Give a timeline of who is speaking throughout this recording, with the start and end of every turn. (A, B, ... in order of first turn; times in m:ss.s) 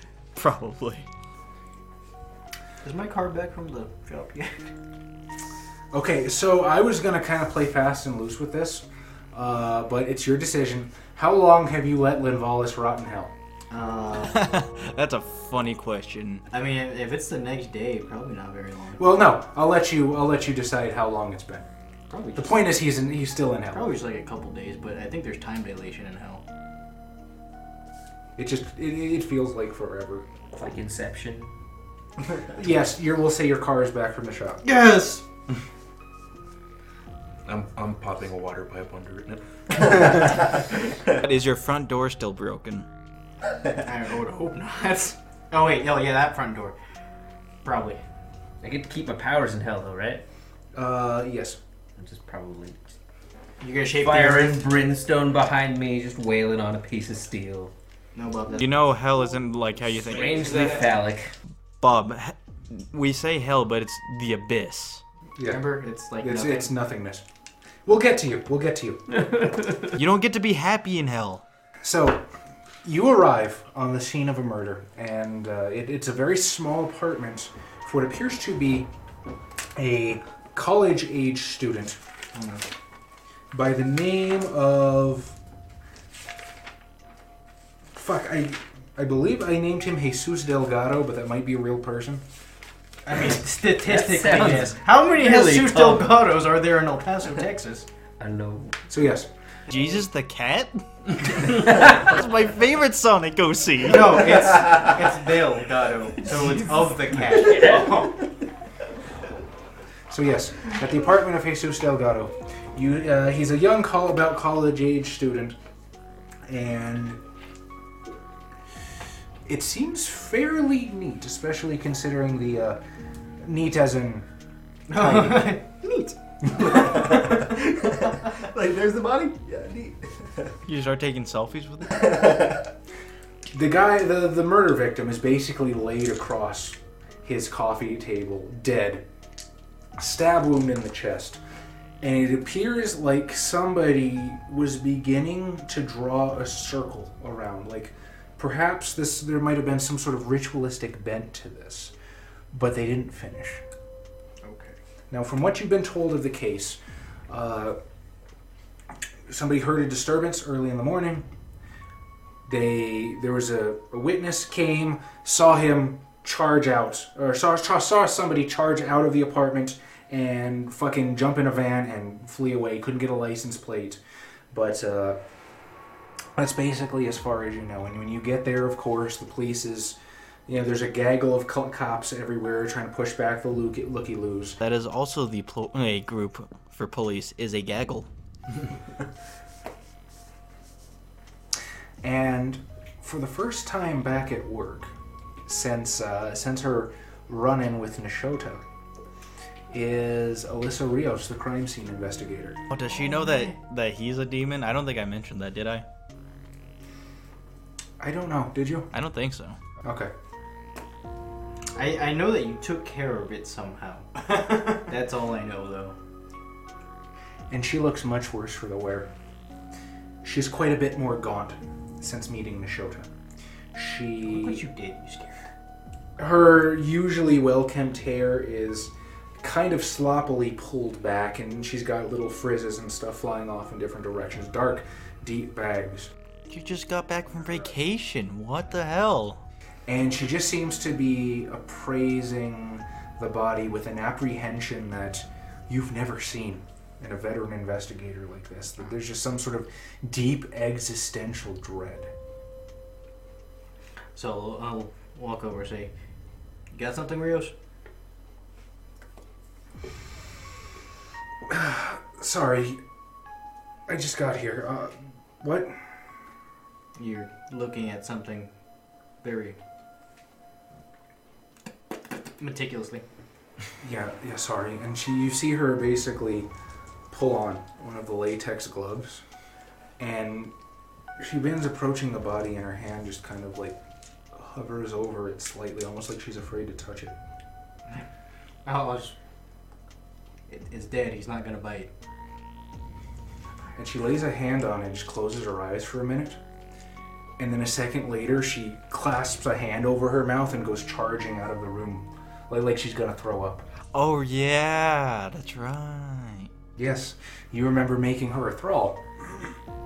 0:00.3-0:01.0 A
0:02.8-0:04.7 B
0:05.9-0:13.3 C
0:13.7-0:14.4 B
0:14.3-0:16.4 A
0:16.5-0:19.1 B
0:19.0-0:21.6 C
0:22.1-0:22.6 B
0:22.3-0:23.9 C
0:23.7-0:26.4 B
0:28.4-0:30.2 C
0:30.6-0:31.5 D
0:32.4-0:34.6 C
0:34.6-0:35.2 B
0:37.4-0:40.4 E
0:41.1-0:42.8 A
0:43.8-0:46.8 B
0:47.6-0:48.0 B
0:48.6-0:50.2 D
0:50.7-0:51.6 C
0:52.0-0:52.9 D
0:53.6-0:54.6 B
0:53.9-0:57.7 D
0:58.1-0:58.7 B
0:58.5-1:00.8 A
1:00.1-1:01.3 D
1:01.8-1:05.0 A
1:05.4-1:07.2 C
1:05.4-1:06.7 B
1:07.8-1:09.0 C
1:09.3-1:09.8 D
1:09.9-1:11.4 A
1:11.8-1:12.2 C
1:12.8-1:18.9 C
1:19.7-1:22.0 C
1:22.3-1:22.6 B
1:23.5-1:25.4 C
1:27.9-1:32.2 C
1:33.0-1:37.8 B
1:33.8-1:36.1 D
1:38.2-1:38.8 D
1:38.9-1:39.3 C
1:39.7-1:44.2 A
1:43.8-1:48.2 B
1:47.4-1:48.0 D
1:50.1-1:55.6 C
1:56.4-1:57.2 C
1:59.4-2:02.8 C
2:03.4-2:04.2 C
2:04.9-2:06.6 B
2:06.6-2:10.5 F
2:10.6-2:12.4 A
2:11.9-2:12.6 F
2:13.5-2:19.0 C
2:20.0-2:21.4 C
2:22.0-2:31.9 C
2:32.5-2:33.6 C
2:34.4-2:34.8 B
2:35.1-2:37.8 C
2:39.3-2:41.3 C
2:42.4-2:54.0 C
2:54.5-2:55.2 C
2:56.4-3:04.6 C
3:04.6-3:08.1 A
3:12.0-3:14.9 C
3:15.4-3:18.6 C
3:19.7-3:22.6 C
3:22.7-3:25.8 A
3:28.0-3:28.9 C
3:28.9-3:29.6 A
3:29.8-3:30.1 C
3:31.7-3:36.0 B
3:37.5-3:39.1 C
3:40.2-3:43.1 C
3:43.7-3:44.6 C
3:44.2-3:45.4 B
3:46.2-3:56.1 C
3:56.5-3:59.4 A
3:59.9-4:12.1 C
4:14.1-4:15.9 B
4:16.7-4:17.5 B
4:21.4-4:22.8 C
4:23.9-4:25.8 C
4:27.0-4:28.5 B
4:29.2-4:29.6 B
4:32.4-4:33.0 B
4:33.8-4:36.5 C
4:37.1-4:39.2 C
4:40.0-4:40.5 C
4:41.2-4:43.8 C
4:44.3-4:47.2 C
4:48.6-4:49.1 B
4:50.5-4:51.9 B
4:53.8-4:56.4 C
4:57.4-5:03.6 C
5:03.9-5:06.5 A
5:06.8-5:09.0 C